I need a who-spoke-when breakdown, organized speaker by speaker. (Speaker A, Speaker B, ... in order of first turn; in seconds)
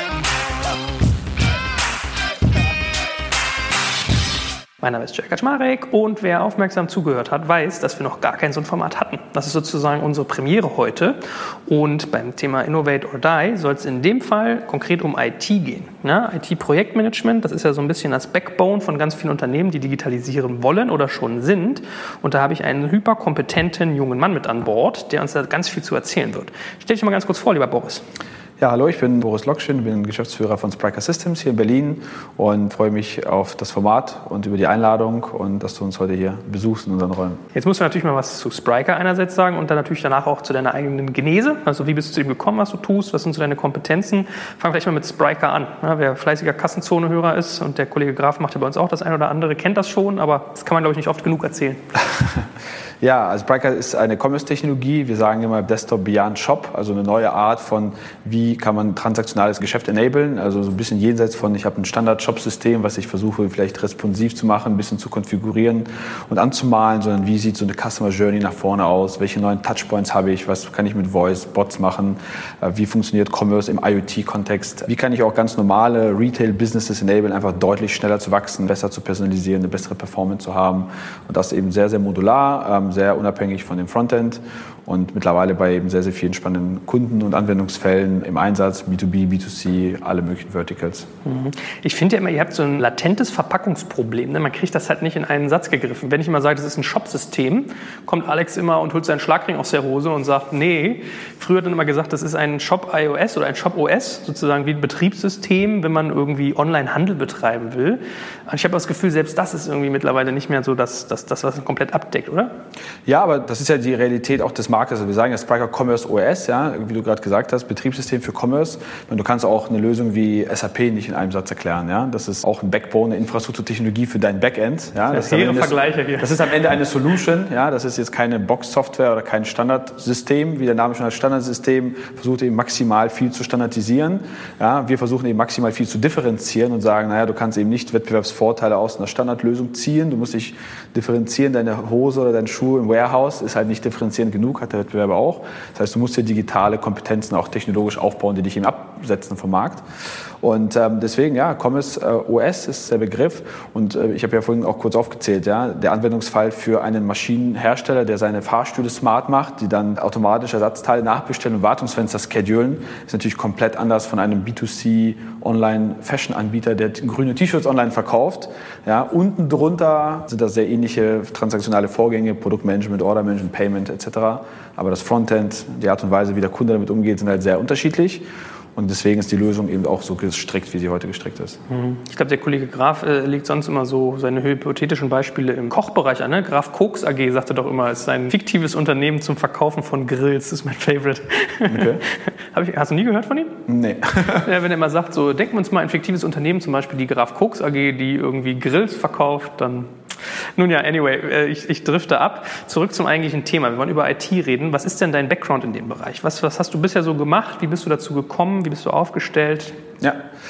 Speaker A: 4.8-28.0, 37.5-51.8, 91.2-112.5, 125.1-126.4, 181.7-193.6, 194.3-199.9, 200.6-209.8
Speaker B: 28.6-37.4, 53.0-91.1, 113.1-149.8, 150.4-178.2, 178.8-181.6, 191.7-192.0, 193.7-194.5